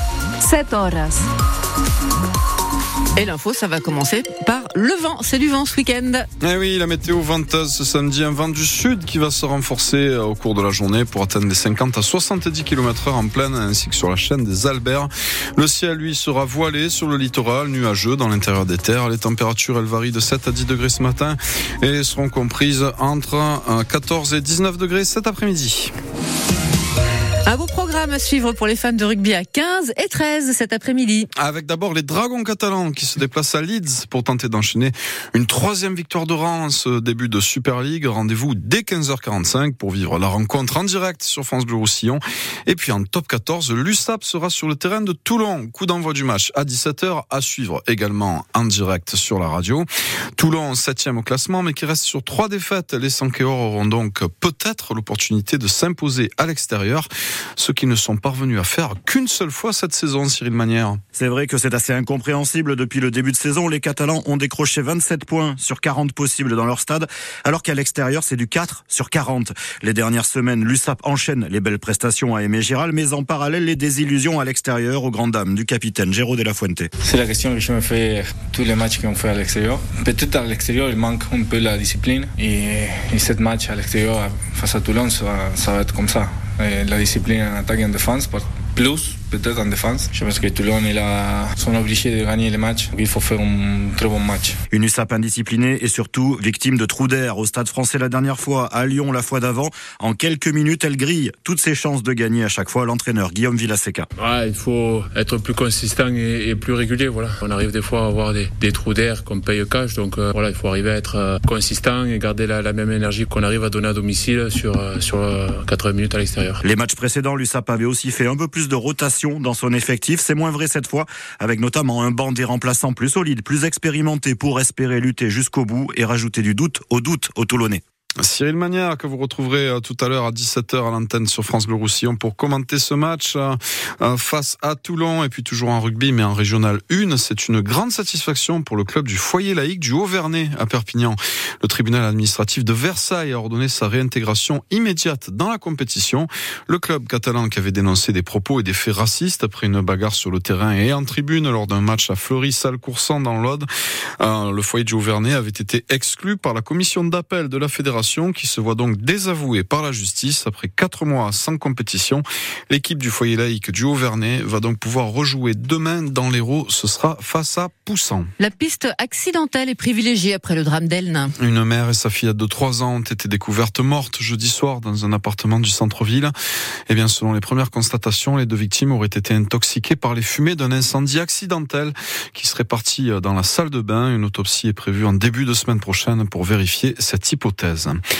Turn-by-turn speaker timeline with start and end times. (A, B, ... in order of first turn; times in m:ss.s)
0:00.4-0:01.2 A
0:03.2-0:06.3 A
0:06.4-0:25.9 B
0:27.4-0:31.3 A
0:31.3-1:01.0 B
1:01.1-1:16.9 C
1:17.0-1:34.6 D
1:34.7-1:44.0 C
1:44.2-1:56.6 E
1:56.6-2:07.8 C
2:08.2-2:33.7 B
2:34.2-2:48.3 B
2:48.4-2:51.3 A
2:51.4-2:56.3 B
2:56.9-3:08.0 B